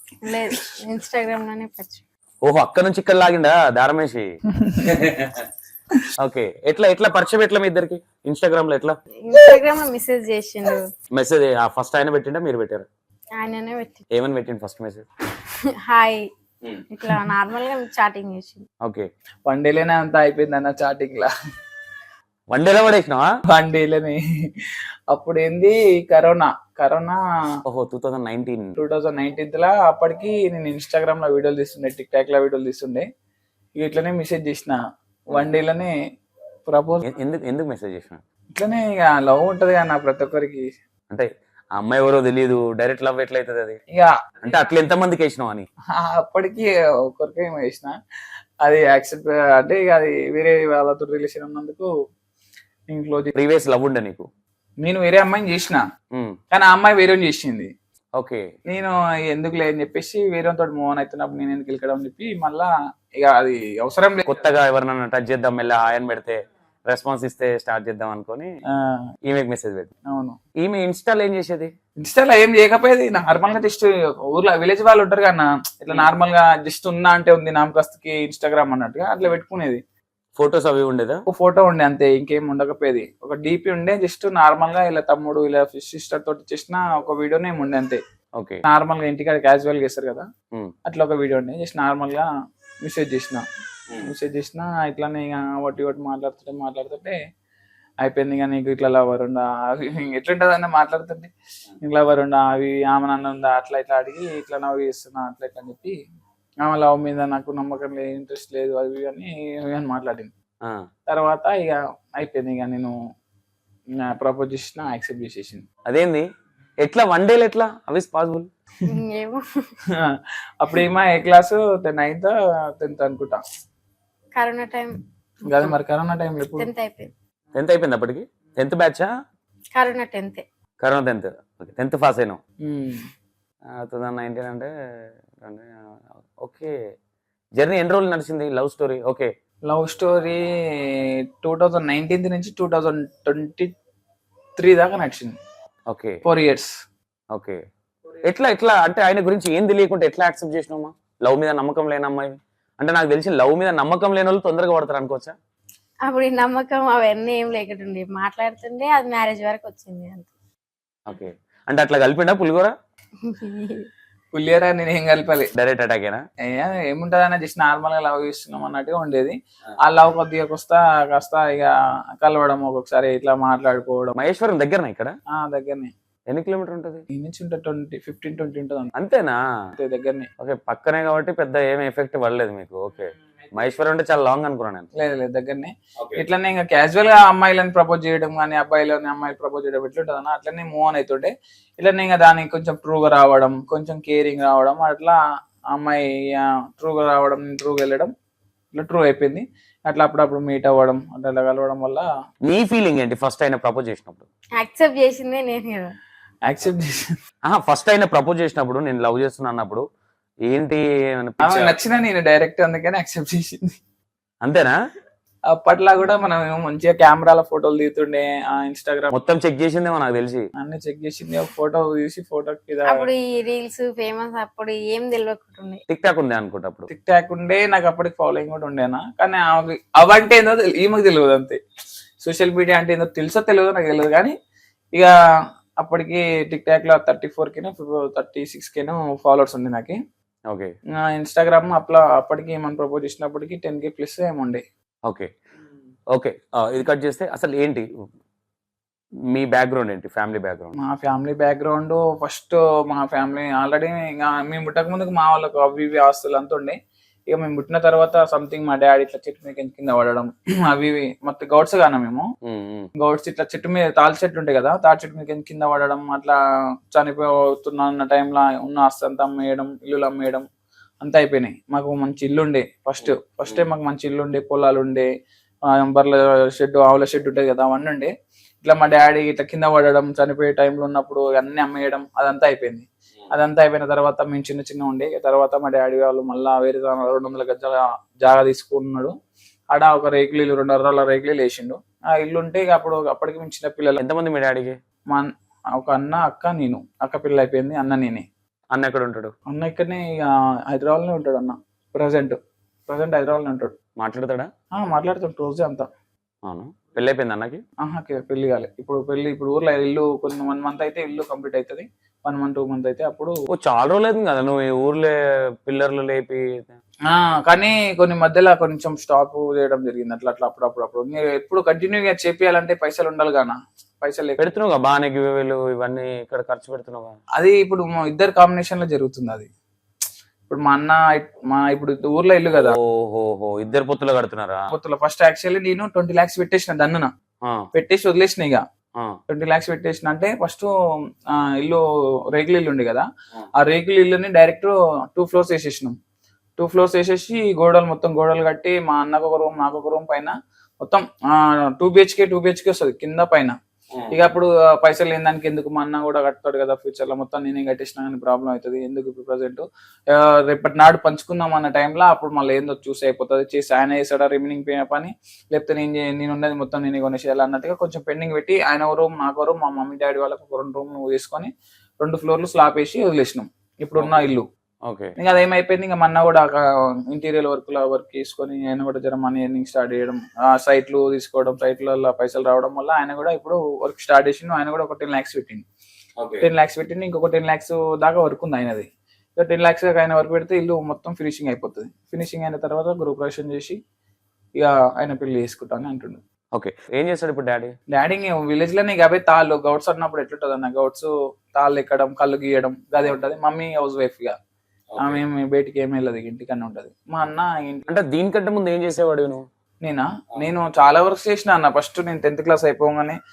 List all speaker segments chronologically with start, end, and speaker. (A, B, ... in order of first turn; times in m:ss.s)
0:00.2-0:02.0 A
0:02.4-0:04.3 B
0:04.8-0:05.4 B
0:06.2-0:09.0 B
0:09.2-0:10.9 A
0:11.1-0:12.9 B
0:13.4-0:14.0 A
0:14.1-0:15.0 B
0:15.9-0:16.3 A
0:16.9-0:18.7 A
0:19.5-0:21.3 C
0:22.5-0:23.3 B
0:23.5-0:27.2 C
0:27.7-0:28.8 B
0:28.8-0:33.0 C
0:33.8-0:34.8 C
0:35.3-0:35.9 C
0:36.7-0:37.1 C
0:37.0-0:38.2 B
0:38.6-0:40.7 C
0:41.1-0:43.8 B
0:44.4-0:45.7 B
0:46.0-0:48.0 C
0:48.6-0:51.9 C
0:52.9-0:53.3 C
0:53.4-0:54.3 B
0:54.8-0:55.8 C
0:56.5-0:57.7 C
0:58.2-0:58.5 B
0:58.7-1:04.5 C
1:04.3-1:08.5 B
1:08.7-1:09.0 C
1:09.3-1:09.9 B
1:10.1-1:10.4 C
1:10.6-1:11.7 B
1:12.0-1:19.8 C
1:20.4-1:21.2 B
1:21.3-1:28.0 C
1:28.4-1:28.6 B
1:28.6-1:30.2 C
1:30.9-1:32.3 C
1:32.8-1:33.4 C
1:34.0-1:37.2 C
1:38.0-1:46.0 C
1:46.6-1:50.3 C
1:51.1-1:52.9 C
1:54.0-1:55.6 C
1:55.9-1:56.3 B
1:56.8-1:58.5 B
1:58.9-1:59.4 A
2:00.0-2:03.4 C
2:04.4-2:05.8 A
2:05.5-2:06.7 C
2:06.6-2:07.1 A
2:07.6-2:09.1 B
2:09.8-2:10.4 A
2:10.8-2:12.4 B
2:12.6-2:13.0 C
2:13.8-2:14.7 B
2:15.4-2:15.7 B
2:16.4-2:16.7 B
2:17.6-2:19.3 B
2:19.7-2:23.7 C
2:24.6-2:25.4 C
2:25.9-2:26.2 B
2:26.2-2:26.7 C
2:27.3-2:27.6 B
2:28.2-2:35.4 B
2:36.0-2:40.3 A
2:41.1-2:42.7 B
2:43.2-2:43.9 A
2:44.3-2:45.5 C
2:45.5-2:46.2 B
2:46.5-2:54.2 C
2:54.2-2:55.2 B
2:55.4-2:55.9 C
2:56.3-2:57.0 B
2:57.1-2:58.9 C
2:59.0-2:59.4 B
2:59.8-3:00.3 C
3:00.4-3:04.9 B
3:05.0-3:15.2 C
3:15.7-3:18.1 C
3:18.7-3:22.1 C
3:22.4-3:24.2 B
3:24.6-3:26.0 A
3:26.4-3:27.0 C
3:27.4-3:29.8 B
3:30.5-3:31.8 B
3:31.4-3:33.7 C
3:34.4-3:34.8 B
3:35.6-3:39.1 C
3:39.1-3:40.5 B
3:40.6-3:43.0 C
3:42.9-3:45.8 A
3:45.9-3:46.9 B
3:46.9-3:51.6 C
3:52.2-3:54.3 C
3:55.8-4:00.0 C
4:01.0-4:04.6 C
4:06.1-4:07.9 B
4:09.3-4:10.8 B
4:10.8-4:16.8 C
4:17.3-4:22.3 C
4:22.5-4:22.9 B
4:23.0-4:26.4 C
4:27.0-4:30.4 C
4:31.0-4:35.1 C
4:33.1-4:33.6 B
4:35.7-4:49.1 C
4:49.7-4:54.0 C
4:54.0-4:54.8 B
4:55.1-4:58.2 C
4:58.7-4:59.3 B
4:59.5-5:03.7 C
5:04.0-5:04.5 B
5:04.8-5:05.9 C
5:06.5-5:07.6 B
5:07.8-5:13.4 C
5:13.5-5:15.1 B
5:15.6-5:16.7 B
5:17.1-5:24.4 C
5:24.4-5:27.2 B
5:27.4-5:29.5 C
5:30.5-5:32.8 C
5:32.5-5:34.7 B
5:34.7-5:37.1 C
5:37.7-5:38.6 C
5:39.3-5:40.7 C
5:41.3-5:43.1 C
5:43.6-5:46.0 C
5:46.6-5:53.6 C
5:54.1-6:11.5 C
6:12.0-6:14.5 C
6:14.0-6:14.3 B
6:14.9-6:15.1 B
6:15.2-6:25.6 C
6:26.2-6:26.4 B
6:26.4-6:33.8 C
6:34.6-6:36.2 C
6:36.6-6:37.7 B
6:37.9-6:44.3 C
6:44.9-6:45.2 B
6:45.0-6:47.8 C
6:47.9-6:49.4 B
6:49.8-6:53.2 C